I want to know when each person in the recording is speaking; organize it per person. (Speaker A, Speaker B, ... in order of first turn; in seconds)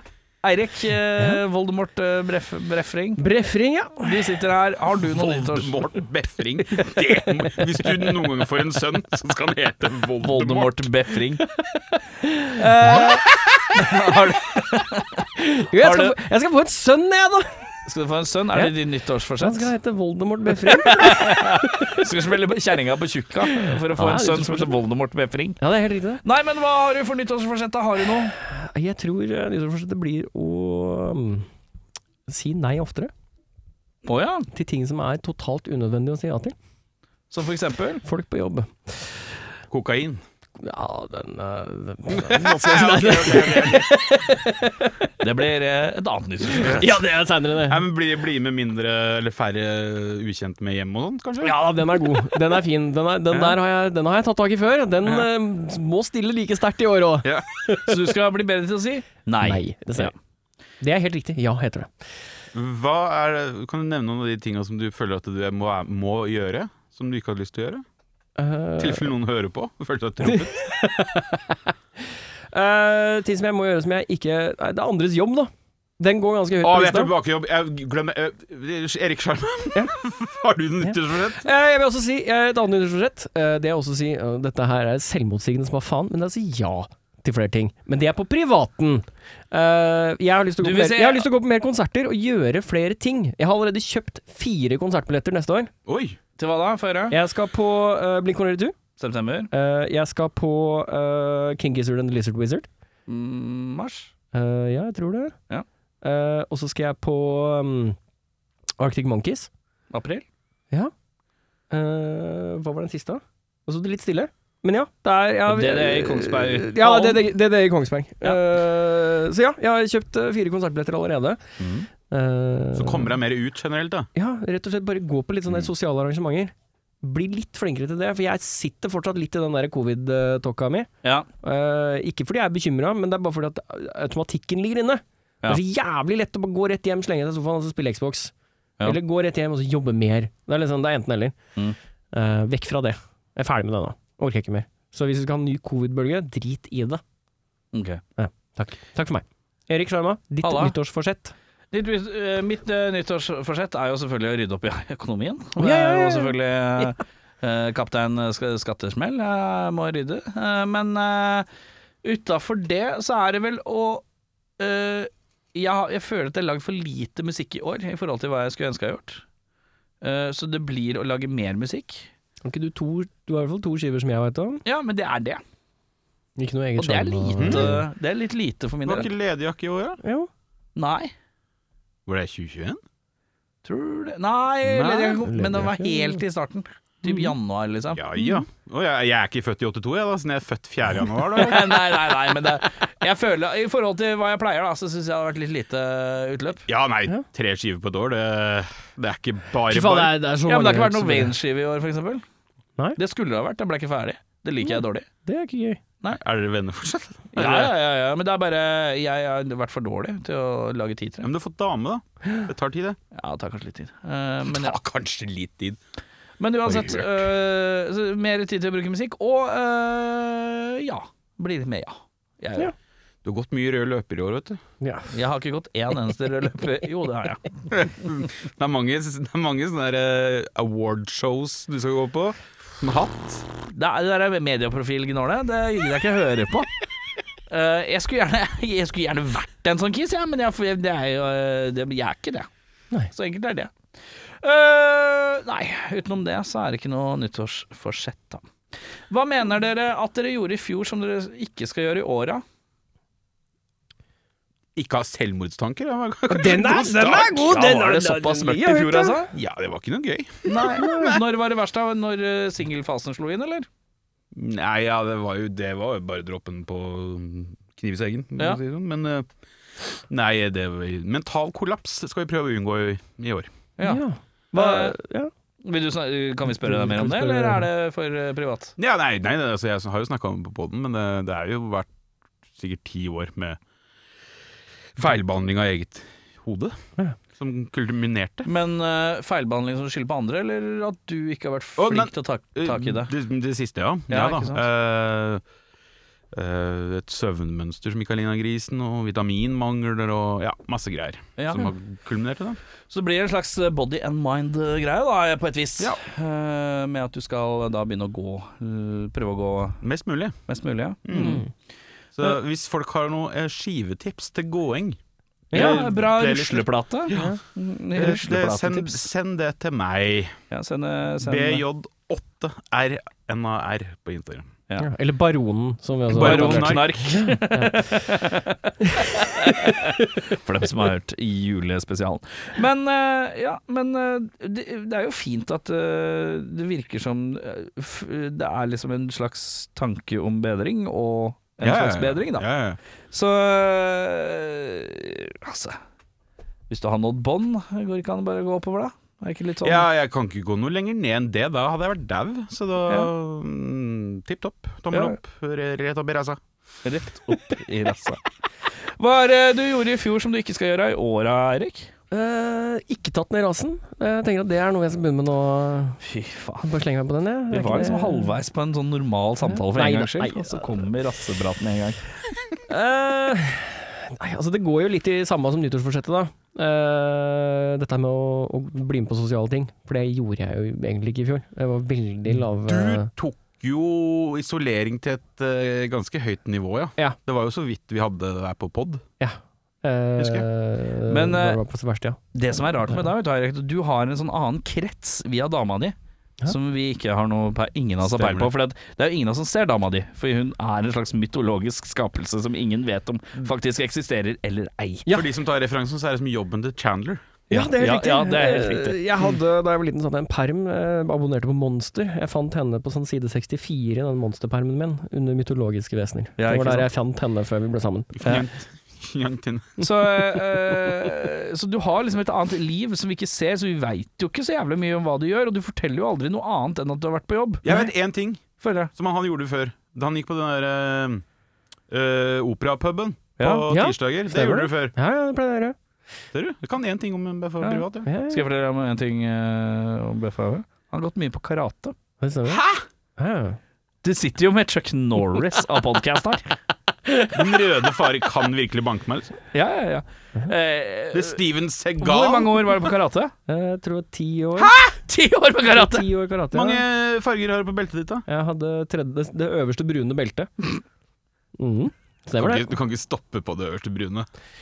Speaker A: 0.4-3.2, 4.0-5.9, 10.2-11.4, 12.5-15.2, 15.8-16.1, 17.9-19.7, 20.6-25.6, 26.2-28.4, 34.0-34.5, 37.3-38.0, 45.2-46.9, 57.8-60.1, 90.6-91.3, 96.4-97.2, 99.0-99.5, 103.1-104.1, 109.9-110.2, 115.5-117.2, 147.7-148.0, 150.4-150.7, 151.7-161.5, 162.0-164.0, 164.6-169.2, 170.0-172.1, 174.6-175.4, 176.8-179.1, 180.8-181.1, 183.6-188.0, 191.3-196.6, 200.4-202.2, 203.0-205.1, 207.3-211.3, 213.1-214.8, 216.4-222.7, 225.1-227.7, 233.7-236.7, 237.5-242.5, 243.1-243.7, 244.4-248.4, 249.1-252.4, 257.5-259.3, 260.4-263.7, 273.8-274.0, 274.5-274.9, 275.6-278.7, 288.4-293.1, 294.1-294.6, 301.4-301.7, 302.9-309.8, 310.5-311.4, 315.5-319.0, 320.5-321.6, 326.1-342.5, 343.1-345.8, 346.7-349.8, 356.8-358.2, 358.8-361.9, 366.0-366.7, 367.5-372.0, 391.1-391.6, 392.3-395.9, 396.5-405.1, 407.5-409.0, 416.4-416.9, 419.8-427.8, 428.6-428.9, 433.4-433.7, 437.6-441.9, 444.0-446.5, 449.5-451.4, 452.0-453.3, 454.8-456.1
Speaker B: 3.2-4.3, 11.4-13.1, 15.3-17.6, 19.4-22.1, 23.4-24.8, 25.6-26.2, 28.3-31.5, 32.3-33.1, 34.5-36.5, 38.0-39.3, 40.6-45.1, 46.5-47.8, 51.4-58.0, 59.4-60.1, 60.8-61.9, 68.4-69.1, 70.2-71.7, 72.5-77.1, 80.8-95.7, 97.1-98.8, 99.5-102.7, 104.3-105.3, 106.0-108.0, 108.8-109.5, 111.7-121.4, 122.1-123.1, 124.1-130.9, 131.4-141.4, 142.1-147.0, 148.2-151.3, 155.6-156.8, 172.4-174.6, 176.4-177.8, 180.0-180.3, 185.2-186.2, 187.1-187.3, 188.2-188.4, 199.7-201.3, 204.6-205.8, 224.8-225.1, 256.3-259.1, 260.7-261.2, 273.8-275.3, 276.5-277.7, 311.1-311.5, 315.5-315.8, 317.1-317.4, 324.8-328.2, 328.8-330.1, 362.1-366.0, 366.6-368.4, 369.5-370.9, 372.7-383.1, 389.2-392.2, 407.5-418.4, 433.5-435.8, 438.0-438.4, 442.2-442.6, 443.2-443.6, 453.5-454.7, 455.7-456.8, 458.3-460.7, 461.6-462.7
Speaker C: 5.0-10.8, 39.7-40.2, 42.1-44.0, 47.6-51.6, 57.2-57.8, 62.5-67.8, 68.8-70.6, 76.6-81.4, 95.8-96.2, 122.7-124.1, 177.4-177.7, 178.8-180.0, 182.1-182.8, 184.6-185.2, 187.9-191.8, 196.7-200.1, 206.1-207.7, 211.2-213.0, 214.5-215.8, 216.6-217.3, 223.2-224.6, 227.7-233.4, 254.8-257.6, 259.3-261.2, 264.3-269.3, 269.8-273.5, 278.8-281.9, 282.5-283.6, 284.9-286.8, 287.3-288.5, 291.8-295.4, 296.3-302.6, 309.8-310.4, 311.0-311.4, 312.1-315.0, 315.5-317.4, 317.9-320.4, 321.2-324.5, 326.1-327.0, 341.6-342.8, 349.6-356.4, 382.6-389.0, 390.2-390.4, 398.0-398.5, 405.1-407.3, 418.1-419.8, 427.6-431.2, 431.9-434.9, 436.3-438.1, 442.5-442.8, 447.3-449.4, 451.1-452.9, 454.6-454.9, 456.5-458.2, 462.4-464.3